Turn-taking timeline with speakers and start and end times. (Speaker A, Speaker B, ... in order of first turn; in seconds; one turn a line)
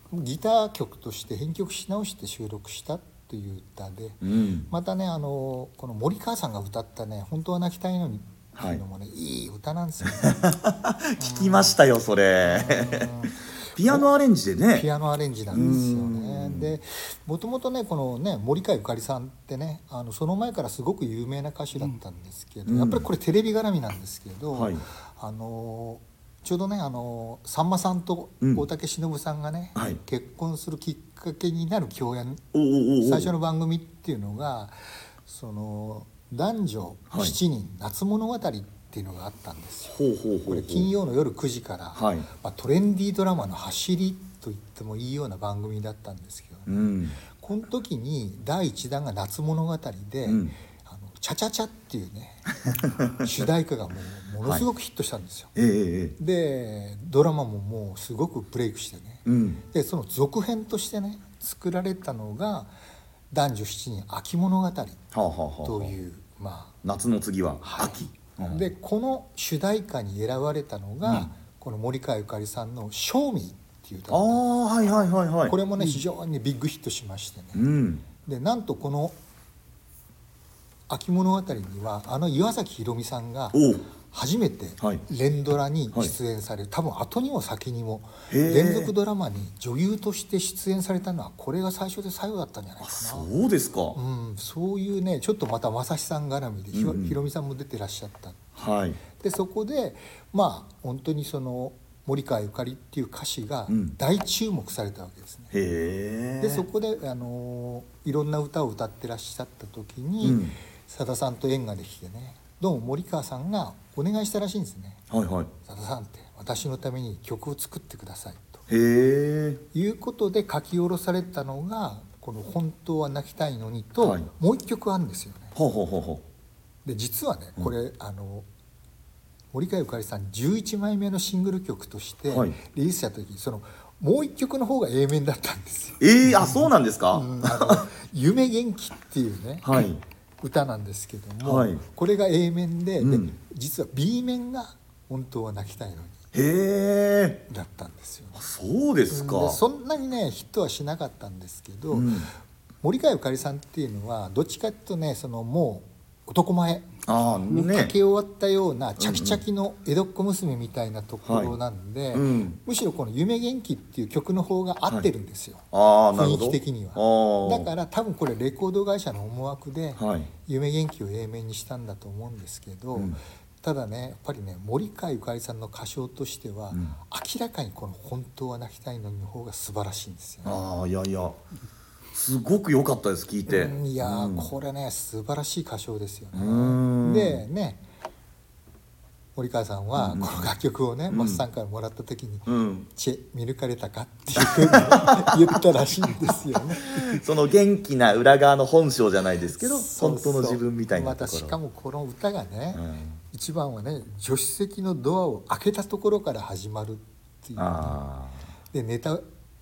Speaker A: 0.1-10.5
Speaker B: 4.2-4.7
Speaker B: 8.6-8.8
Speaker B: 10.2-13.2
Speaker A: 11.2-11.8
Speaker A: 12.5-14.1
Speaker B: 13.8-14.9
Speaker A: 14.7-32.5
Speaker B: 15.5-16.7
Speaker B: 22.7-23.1
Speaker B: 24.5-24.8
Speaker B: 29.8-30.0
Speaker B: 32.5-33.3
Speaker A: 33.0-40.0
Speaker B: 37.1-37.4
Speaker B: 39.9-40.9
Speaker A: 40.5-55.5
Speaker B: 42.0-42.3
Speaker B: 46.7-47.2
Speaker B: 50.2-50.5
Speaker B: 52.7-53.3
Speaker B: 55.5-56.2
Speaker A: 56.2-62.7
Speaker B: 59.2-59.6
Speaker A: 63.3-65.0
Speaker B: 65.1-66.0
Speaker A: 65.6-66.8
Speaker B: 66.8-68.7
Speaker A: 67.6-74.4
Speaker B: 71.0-71.3
Speaker B: 74.1-75.6
Speaker A: 75.5-77.7
Speaker B: 77.5-78.0
Speaker A: 78.2-79.2
Speaker A: 80.9-93.3
Speaker B: 83.5-83.9
Speaker B: 88.3-88.9
Speaker B: 92.8-94.0
Speaker A: 93.9-105.5
Speaker B: 96.7-97.2
Speaker B: 98.6-99.0
Speaker B: 103.7-104.0
Speaker B: 105.5-106.7
Speaker A: 106.4-115.1
Speaker B: 110.2-110.6
Speaker B: 115.1-115.5
Speaker A: 115.7-118.7
Speaker B: 118.7-119.6
Speaker A: 119.7-125.6
Speaker B: 124.0-124.3
Speaker B: 125.5-126.2
Speaker A: 126.8-128.5
Speaker A: 129.5-136.6
Speaker B: 132.3-132.6
Speaker B: 136.0-137.8
Speaker A: 137.1-139.9
Speaker B: 139.6-140.0
Speaker A: 140.4-146.2
Speaker B: 141.4-141.8
Speaker B: 143.0-143.3
Speaker B: 146.3-147.5
Speaker A: 147.5-148.4
Speaker B: 148.4-149.6
Speaker A: 149.1-152.3
Speaker B: 151.9-152.3
Speaker A: 152.8-180.6
Speaker B: 157.1-157.9
Speaker B: 159.0-159.4
Speaker B: 161.2-161.6
Speaker B: 162.1-162.6
Speaker B: 165.7-167.7
Speaker B: 170.0-170.3
Speaker B: 180.4-181.4
Speaker B: 182.1-184.5
Speaker A: 183.5-187.8
Speaker B: 186.3-187.4
Speaker A: 189.4-197.2
Speaker B: 190.0-190.5
Speaker B: 191.1-191.4
Speaker B: 192.5-192.9
Speaker B: 194.3-195.6
Speaker B: 196.8-201.6
Speaker A: 199.6-208.0
Speaker B: 202.7-203.2
Speaker B: 207.6-208.4
Speaker A: 208.7-209.2